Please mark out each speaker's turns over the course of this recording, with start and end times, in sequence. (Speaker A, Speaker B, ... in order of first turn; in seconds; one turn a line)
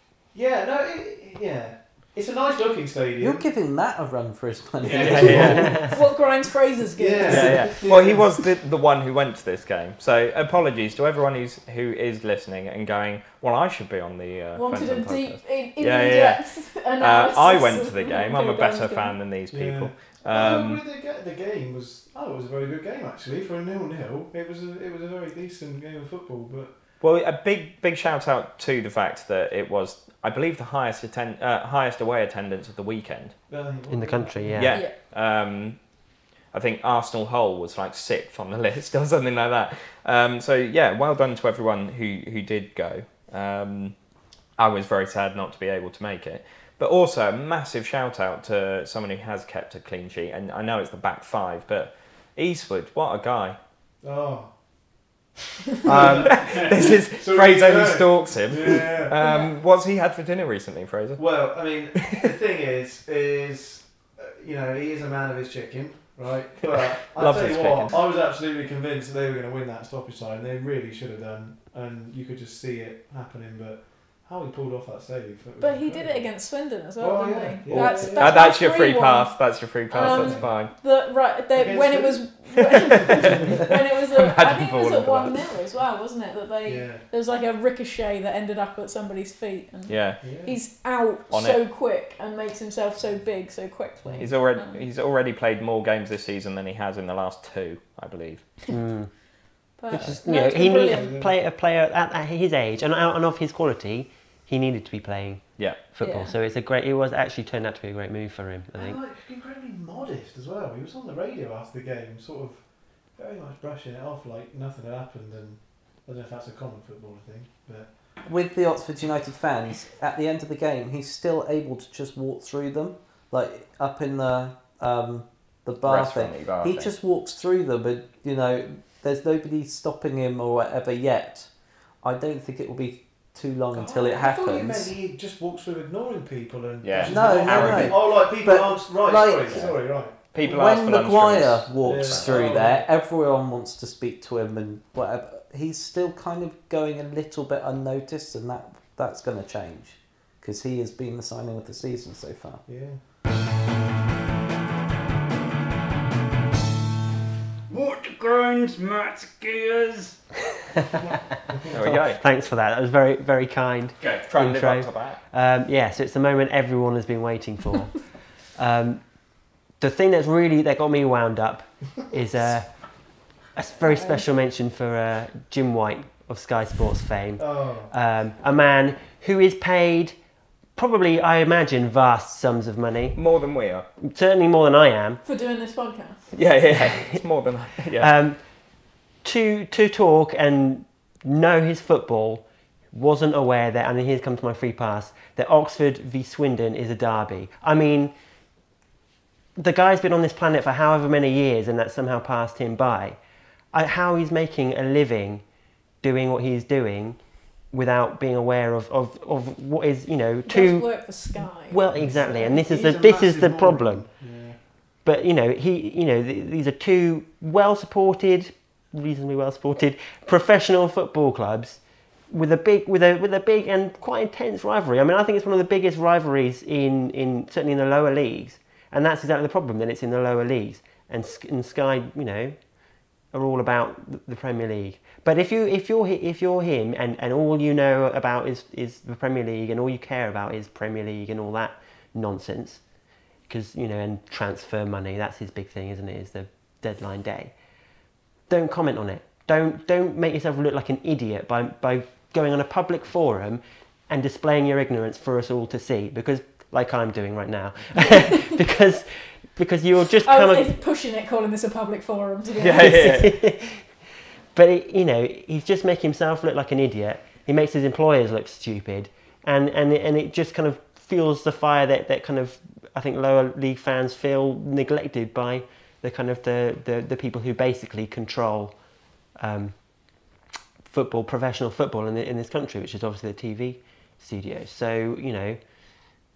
Speaker A: 0.3-3.5
Speaker B: 3.2-5.8
Speaker A: 4.8-6.1
Speaker C: 4.9-5.8
Speaker D: 5.6-7.8
Speaker A: 6.9-8.3
Speaker C: 7.2-20.8
Speaker D: 14.6-19.2
Speaker A: 19.5-26.7
Speaker C: 27.0-33.4
Speaker A: 33.5-34.7
Speaker E: 33.9-34.8
Speaker C: 34.5-44.0
Speaker C: 44.6-53.6
Speaker A: 54.0-55.1
Speaker A: 55.8-59.1
Speaker C: 55.9-61.8
Speaker D: 59.2-59.5
Speaker A: 61.2-78.4
Speaker C: 66.7-68.0
Speaker D: 75.6-94.8
Speaker C: 77.7-80.7
Speaker A: 80.0-80.8
Speaker A: 81.5-82.5
Speaker A: 83.2-83.5
Speaker C: 83.4-85.4
Speaker A: 86.6-87.0
Speaker C: 89.9-90.2
Speaker A: 90.2-90.5
Speaker C: 91.3-91.6
Speaker A: 94.0-94.3
Speaker C: 94.2-98.5
Speaker E: 98.7-99.2
Speaker E: 99.8-109.0
Speaker D: 99.8-101.1
Speaker A: 100.8-101.3
Speaker D: 106.0-106.3
Speaker A: 108.8-118.1
Speaker B: 118.2-135.0
Speaker C: 125.8-126.9
Speaker A: 133.7-140.4
Speaker C: 136.8-138.1
Speaker B: 137.0-152.7
Speaker C: 139.5-142.5
Speaker A: 141.8-142.9
Speaker A: 152.7-153.0
Speaker F: 157.7-160.2
Speaker C: 161.7-162.2
Speaker E: 161.9-180.2
Speaker F: 164.0-164.3
Speaker C: 164.2-165.2
Speaker D: 173.9-174.2
Speaker A: 177.4-177.9
Speaker E: 180.8-183.2
Speaker C: 183.1-183.9
Speaker E: 184.0-185.2
Speaker D: 185.2-186.3
Speaker C: 186.3-188.1
Speaker E: 186.7-187.2
Speaker E: 188.0-198.2
Speaker E: 199.6-203.2
Speaker E: 203.7-214.1
Speaker D: 210.5-212.6
Speaker A: 211.9-214.6
Speaker E: 215.0-247.8
Speaker E: 248.5-260.8
Speaker D: 260.2-263.0
Speaker C: 262.6-263.4
Speaker E: 262.8-285.6